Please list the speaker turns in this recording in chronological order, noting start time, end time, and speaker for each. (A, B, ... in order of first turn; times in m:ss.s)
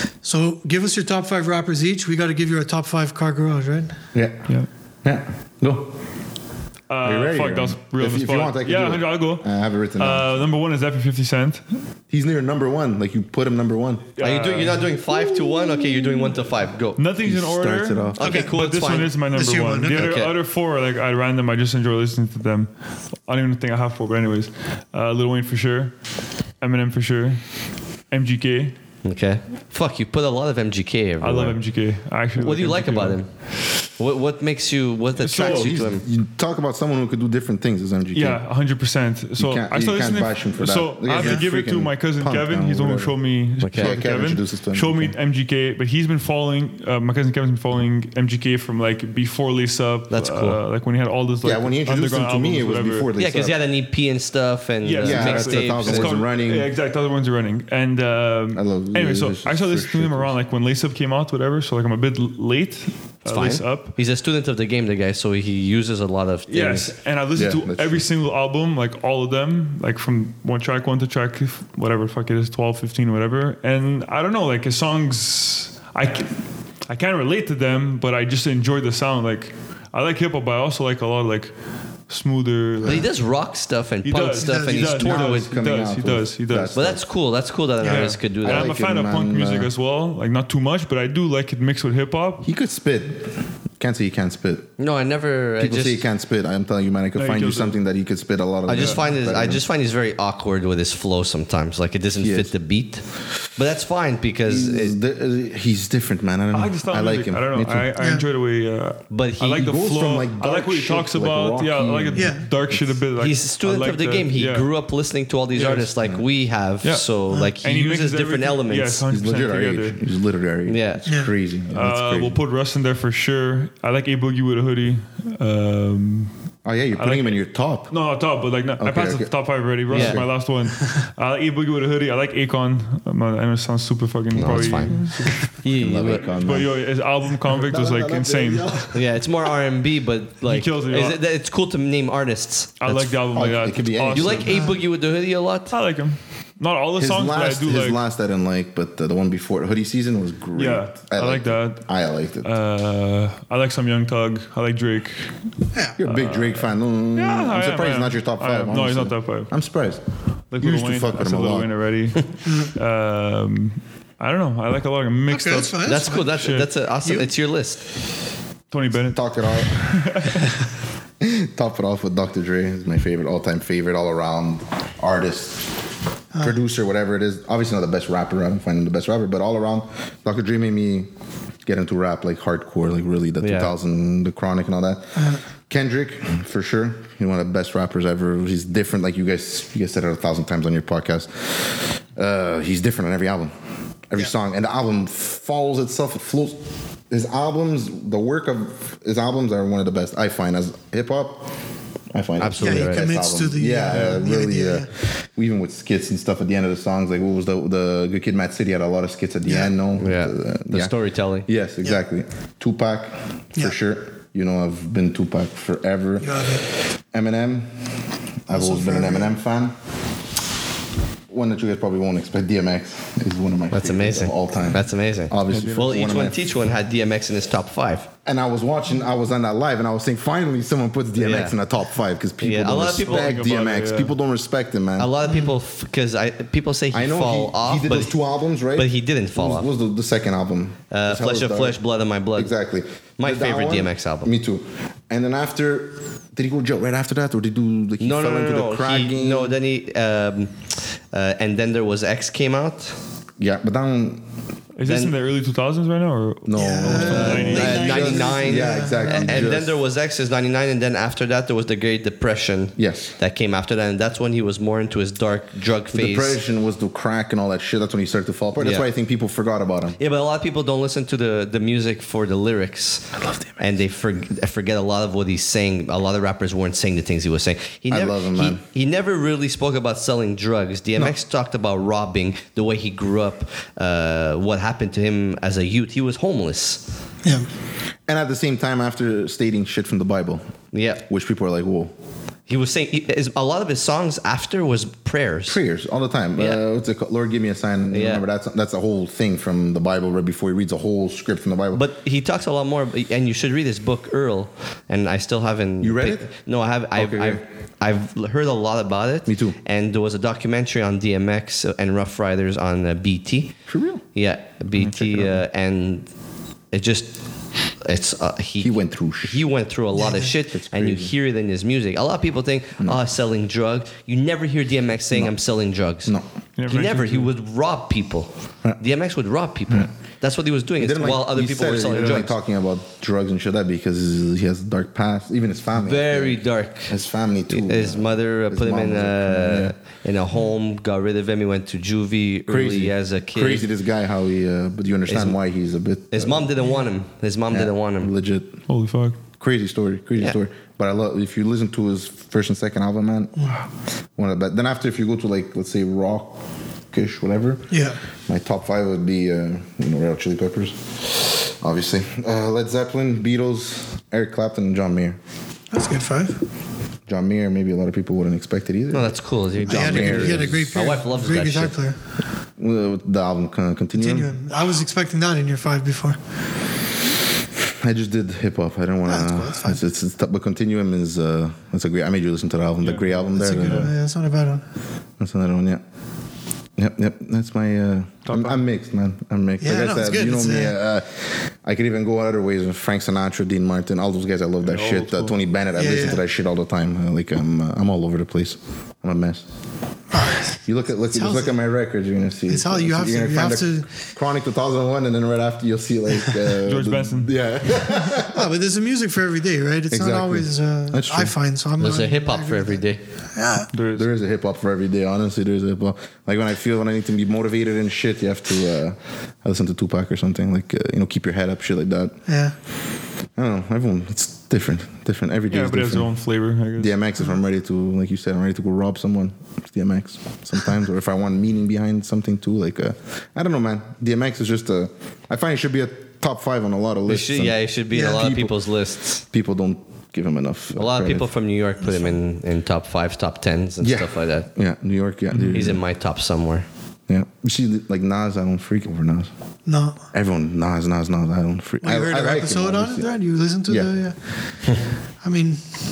0:00.2-0:03.9 A
0:04.1-0:04.4 B
0:05.0-0:05.9 B
0:06.9-0:11.6 C
0:07.0-0:10.5 B
0:12.1-0:14.1 B
0:14.2-0:14.9 C
0:14.2-0:17.0 D
0:17.0-0:22.7 C
0:17.2-0:18.2 B
0:18.2-0:19.1 D
0:18.2-0:18.5 A
0:19.3-0:20.2 A
0:19.9-0:20.3 D
0:23.2-0:25.9 C
0:26.6-0:27.4 C
0:28.1-0:28.8 C
0:29.0-0:31.6 D
0:31.2-0:33.2 C
0:32.4-0:36.0 D
0:35.2-0:35.8 C
0:35.4-0:38.4 B
0:38.1-0:53.1 C
0:39.4-0:43.2 B
0:41.2-0:41.4 A
0:43.6-0:44.0 D
0:43.7-0:45.1 B
0:50.1-0:50.6 D
0:51.4-0:53.6 B
0:53.2-0:56.2 D
0:54.8-1:03.9 C
0:55.0-0:56.7 B
0:58.5-1:00.4 B
1:03.3-1:06.9 D
1:06.5-1:21.5 C
1:07.3-1:08.0 B
1:22.1-1:23.1 C
1:22.8-1:25.5 D
1:24.0-1:26.8 C
1:24.4-1:25.2 A
1:25.1-1:27.0 B
1:26.7-1:28.8 D
1:27.8-1:32.4 C
1:28.4-1:29.7 B
1:32.4-1:34.8 B
1:34.8-1:36.0 D
1:35.6-1:39.6 B
1:37.1-1:37.8 C
1:38.7-1:45.0 D
1:42.2-1:42.5 B
1:44.4-1:47.9 B
1:46.5-1:54.7 C
1:48.0-1:48.2 A
1:49.1-1:49.7 D
1:49.5-1:52.8 B
1:52.1-1:52.4 A
1:53.2-1:59.0 D
1:55.5-1:55.9 C
1:56.8-2:00.0 C
1:59.1-2:02.4 B
2:00.7-2:01.0 D
2:01.0-2:01.3 A
2:01.7-2:06.3 C
2:06.6-2:07.9 B
2:06.9-2:15.5 C
2:08.8-2:09.3 B
2:09.9-2:10.3 B
2:09.9-2:10.2 D
2:14.3-2:15.1 B
2:14.4-2:15.0 D
2:15.6-2:16.3 D
2:15.6-2:16.7 B
2:16.4-2:18.8 C
2:17.5-2:19.0 B
2:18.9-2:22.8 D
2:20.4-2:21.2 C
2:22.8-2:24.8 C
2:22.8-2:24.5 B
2:24.1-2:25.7 D
2:24.5-2:24.8 A
2:25.7-2:28.0 C
2:27.0-2:32.5 B
2:30.5-2:31.9 C
2:32.4-2:35.3 C
2:36.0-2:40.0 B
2:36.0-2:39.5 C
2:40.5-2:46.7 C
2:40.6-2:41.7 B
2:45.3-2:46.2 A
2:45.8-2:47.8 D
2:47.0-2:47.3 A
2:48.7-2:50.5 C
2:49.1-2:49.9 B
2:51.2-2:55.7 B
2:56.4-3:01.1 B
3:01.6-3:13.5 B
3:03.4-3:03.7 D
3:05.2-3:05.4 A
3:14.1-3:16.6 B
3:17.1-3:21.5 B
3:22.1-3:30.9 B
3:22.4-3:23.1 D
3:22.6-3:24.9 A
3:29.5-3:29.7 A
3:30.0-3:31.5 D
3:31.4-3:39.7 B
3:36.2-3:36.6 A
3:38.5-3:39.3 A
3:41.3-3:46.4 B
3:43.7-3:48.1 D
3:45.5-3:45.9 C
3:48.2-3:55.1 B
3:51.2-3:51.6 D
3:52.4-3:53.4 D
3:53.0-3:54.1 C
3:55.0-3:58.1 D
3:56.9-4:01.8 B
3:58.8-3:59.7 D
4:00.9-4:02.5 D
4:02.4-4:09.6 B
4:03.2-4:04.3 D
4:08.0-4:13.0 D
4:13.4-4:14.2 B
4:14.8-4:18.2 C
4:14.8-4:15.1 D
4:16.4-4:19.8 B
4:16.5-4:19.4 A
4:17.1-4:26.4 D
4:22.8-4:23.1 B
4:25.9-4:30.0 B
4:28.6-4:28.8 D
4:30.0-4:46.8 D
4:33.2-4:33.5 B
4:37.9-4:38.6 B
4:48.1-4:50.4 B
4:50.7-4:51.0 D
4:51.1-4:51.9 B
4:52.5-4:55.6 D
4:55.5-5:01.8 B
4:56.4-4:56.6 D
4:57.9-4:58.2 D
5:01.7-5:13.6 D
5:05.8-5:06.2 B
5:07.0-5:07.4 B
5:09.3-5:09.6 B
5:13.7-5:14.0 B
5:14.1-5:16.1 D
5:14.7-5:15.4 B
5:16.7-5:17.2 D
5:17.8-5:26.1 D
5:18.6-5:19.4 B
5:20.0-5:20.3 A
5:20.5-5:21.1 B
5:26.6-5:27.3 C
5:26.7-5:32.3 D
5:30.8-5:39.7 B
5:35.8-5:36.9 D
5:37.5-5:43.7 D
5:42.5-5:46.5 B
5:45.1-5:45.4 D
5:46.1-5:48.1 D
5:47.5-5:48.6 B
5:48.7-5:49.2 C
5:49.4-5:56.4 B
5:56.9-6:05.2 B
5:57.7-5:58.0 A
6:05.7-6:06.4 A
6:07.1-6:10.9 B
6:08.9-6:11.7 D
6:09.6-6:12.0 A
6:12.6-6:14.3 B
6:14.0-6:16.2 A
6:17.8-6:23.9 B
6:19.1-6:19.8 A
6:22.8-6:23.9 C
6:23.3-6:24.6 A
6:25.2-6:25.8 B
6:26.8-6:39.4 B
6:28.2-6:28.6 C
6:29.6-6:30.7 A
6:34.6-6:35.3 C
6:35.8-6:36.2 A
6:40.1-6:40.6 A
6:40.6-6:48.5 B
6:41.1-6:41.5 A
6:42.5-6:43.9 A
6:46.6-6:47.3 C
6:48.1-6:52.8 A
6:49.9-6:51.3 B
6:51.8-6:53.0 D
6:53.3-6:53.7 A
6:53.7-6:54.1 C
6:53.9-7:02.1 B
7:02.3-7:02.5 A
7:03.4-7:06.1 B
7:05.5-7:06.9 C
7:06.8-7:18.5 B
7:17.1-7:19.2 D
7:17.9-7:18.2 A
7:19.3-7:21.3 B
7:20.7-7:24.5 D
7:23.8-7:25.8 B
7:25.3-7:25.7 C
7:25.5-7:26.6 D
7:27.1-7:29.3 B
7:29.6-7:30.1 A
7:30.1-7:33.1 B
7:31.8-7:34.2 A
7:35.2-7:35.6 A